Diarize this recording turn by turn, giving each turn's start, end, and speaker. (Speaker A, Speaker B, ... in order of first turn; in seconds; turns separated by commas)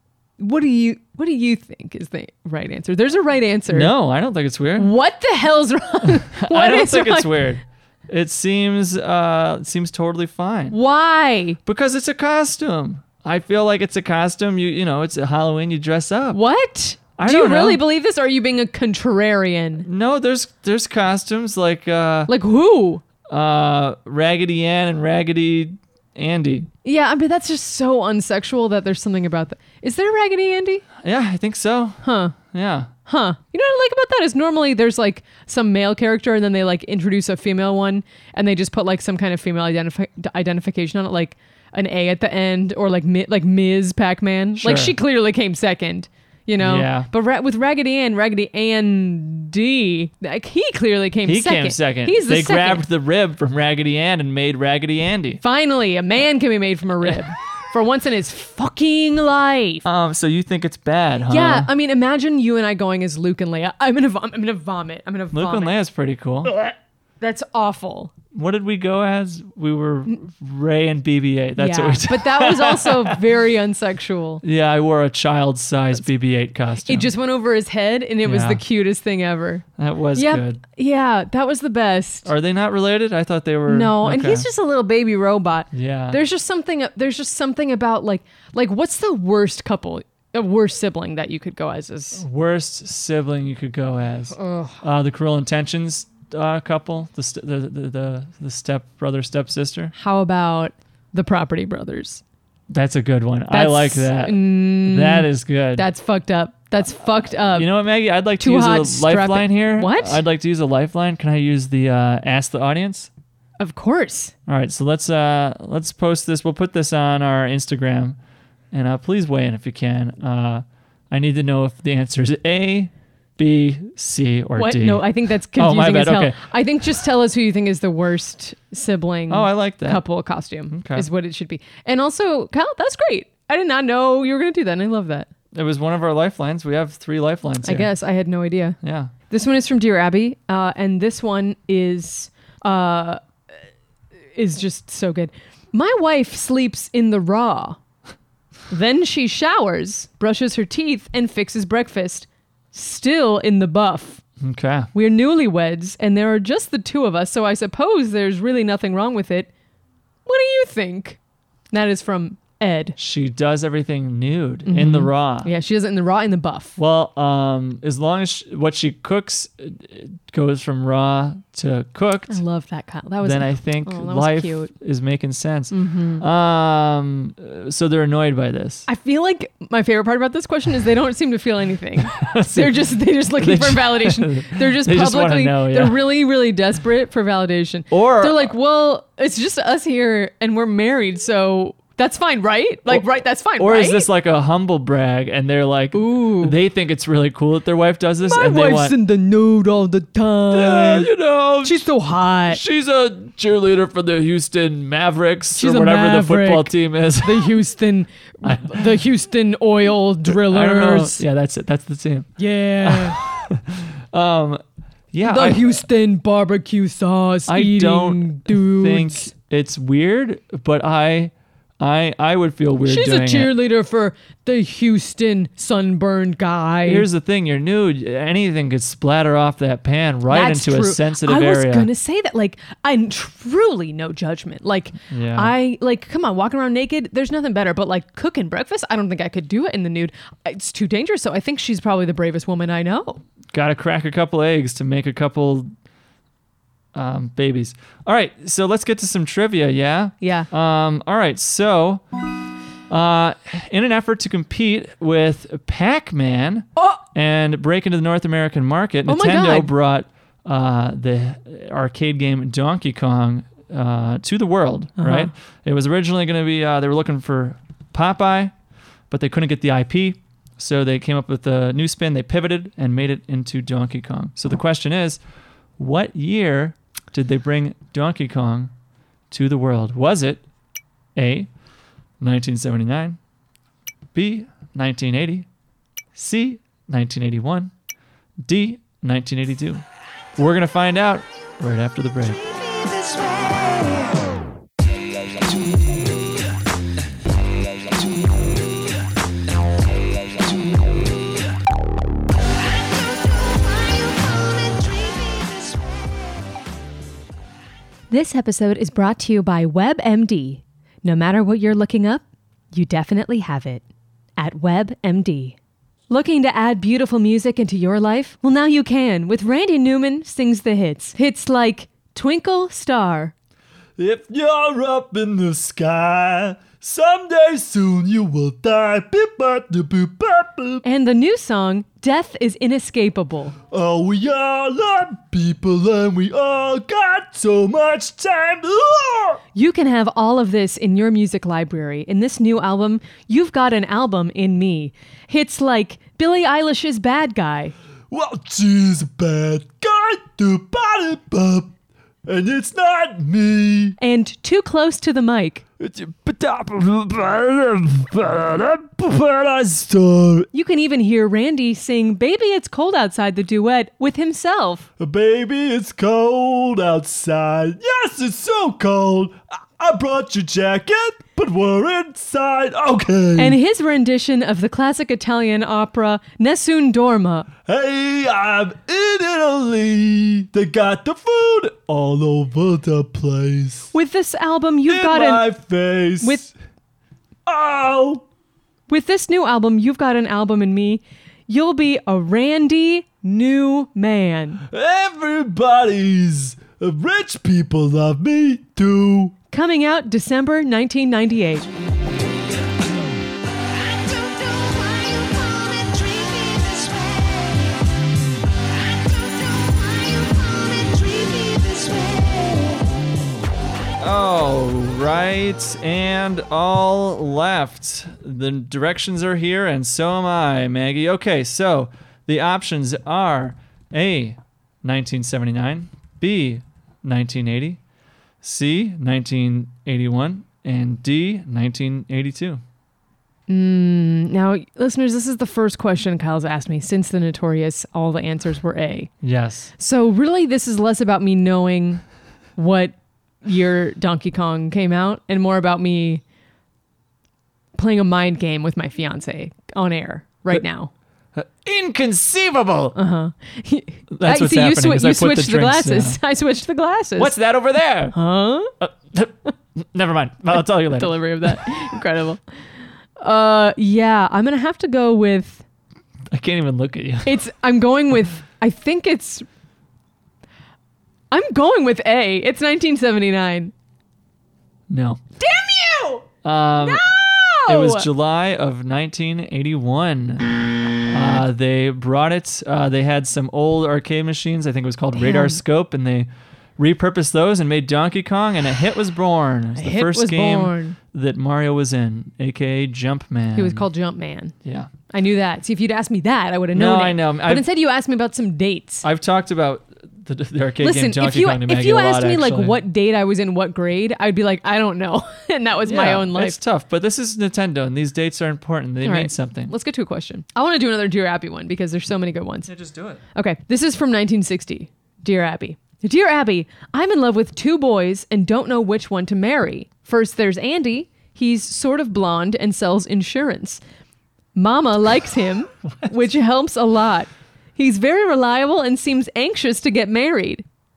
Speaker A: 0.4-3.9, Speaker B: 3.7-4.9, Speaker A: 4.8-7.4, Speaker B: 6.1-10.8, Speaker A: 10.7-11.6, Speaker B: 11.7-16.4, Speaker A: 16.3-19.9, Speaker B: 17.2-17.8, Speaker B: 19.8-22.3, Speaker A: 22.3-23.0, Speaker B: 23.3-26.7, Speaker A: 26.8-30.9, Speaker B: 31.0-32.9, Speaker A: 32.0-32.4, Speaker A: 33.1-52.8, Speaker B: 44.6-45.0, Speaker B: 46.6-47.1, Speaker B: 51.2-55.4, Speaker A: 55.4-59.9, Speaker B: 59.9-61.7, Speaker A: 61.3-65.7, Speaker B: 65.3-66.6, Speaker A: 67.2-68.1, Speaker B: 68.3-73.2, Speaker A: 71.6-74.4, Speaker B: 74.4-77.1, Speaker A: 76.8-82.3, Speaker B: 78.2-78.6, Speaker B: 79.8-80.6, Speaker B: 82.3-84.5, Speaker A: 83.7-92.2, Speaker B: 85.7-86.2, Speaker B: 92.2-99.9, Speaker A: 94.4-94.8, Speaker A: 99.9-102.2, Speaker B: 102.7-105.8, Speaker A: 103.5-107.7, Speaker B: 107.5-113.1, Speaker A: 108.4-110.2, Speaker A: 113.6-114.3, Speaker B: 114.5-118.2, Speaker B: 118.7-126.4, Speaker A: 124.6-135.3, Speaker B: 129.3-130.0, Speaker B: 130.7-131.1, Speaker B: 135.5-137.9, Speaker A: 137.6-138.8, Speaker B: 138.8-139.1, Speaker A: 139.3-143.2, Speaker A: 144.3-147.8, Speaker A: 148.7-154.2, Speaker B: 154.4-154.9, Speaker A: 154.9-159.5, Speaker A: 160.3-161.2, Speaker A: 161.7-163.0, Speaker B: 163.0-165.5, Speaker A: 164.7-166.8, Speaker B: 166.8-172.4, Speaker A: 172.3-174.7, Speaker B: 173.2-178.9, Speaker A: 175.7-176.2, Speaker A: 178.9-194.1, Speaker B: 182.1-186.0, Speaker B: 187.9-188.5, Speaker B: 193.6-198.9, Speaker A: 195.9-196.6, Speaker A: 198.3-202.6, Speaker B: 200.5-201.9, Speaker B: 202.5-207.6, Speaker A: 205.6-211.2, Speaker B: 208.4-209.0, Speaker B: 210.3-212.3, Speaker A: 212.4-213.2, Speaker B: 212.8-215.8, Speaker A: 215.2-219.3, Speaker B: 217.5-223.5, Speaker A: 222.8-227.1, Speaker B: 226.8-231.9, Speaker A: 230.3-243.2, Speaker B: 235.1-235.5, Speaker B: 243.5-245.7, Speaker B: 246.9-252.0, Speaker A: 250.2-250.5, Speaker B: 252.9-268.5, Speaker A: 259.1-259.7, Speaker A: 265.0-265.3, Speaker B: 269.1-275.2, Speaker B: 275.8-278.7, Speaker B: 279.3-280.4, Speaker B: 281.2-281.5, Speaker B: 282.2-283.2, Speaker B: 284.1-285.5, Speaker B: 286.1-287.7, Speaker B: 288.4-289.8, Speaker B: 290.4-292.4, Speaker A: 308.1-313.9, Speaker A: 314.4-315.6, Speaker A: 316.1-323.3, Speaker B: 324.0-330.8, Speaker A: 330.8-333.6, Speaker B: 333.7-339.4, Speaker A: 339.5-347.8, Speaker B: 348.1-351.7, Speaker B: 352.3-354.0, Speaker A: 354.0-355.6, Speaker B: 355.8-360.5, Speaker A: 360.5-364.9, Speaker B: 365.0-373.6, Speaker A: 373.4-377.5, Speaker B: 377.7-383.9, Speaker A: 383.9-385.5, Speaker B: 384.9-386.5, Speaker A: 386.2-386.5, Speaker B: 387.5-388.2, Speaker A: 388.9-394.6, Speaker B: 394.7-399.3, Speaker A: 399.5-401.7, Speaker B: 414.0-427.8, Speaker B: 428.4-432.6, Speaker A: 433.5-439.1, Speaker B: 439.2-439.7, Speaker A: 439.8-442.0, Speaker A: 442.6-446.2, Speaker A: 447.8-450.9, Speaker B: 451.4-453.0, Speaker A: 452.9-457.4, Speaker B: 454.1-456.2, Speaker B: 457.2-458.2, Speaker A: 458.1-458.7, Speaker B: 458.8-461.9, Speaker A: 460.5-462.4, Speaker A: 463.2-465.6, Speaker B: 466.3-467.4, Speaker A: 467.2-469.5, Speaker A: 471.3-473.7, Speaker B: 474.9-475.2, Speaker A: 475.4-476.2, Speaker B: 476.4-477.1, Speaker A: 476.8-478.1, Speaker B: 477.7-480.5, Speaker B: 481.1-493.9, Speaker A: 485.1-485.6, Speaker A: 489.8-491.0, Speaker A: 493.6-494.5, Speaker B: 494.6-494.9, Speaker A: 495.1-499.1, Speaker B: 496.7-497.6, Speaker B: 499.0-502.8, Speaker A: 500.8-506.6, Speaker B: 505.9-509.7, Speaker A: 509.0-512.7, Speaker B: 512.7-513.2, Speaker A: 513.4-523.8, Speaker A: 524.5-530.6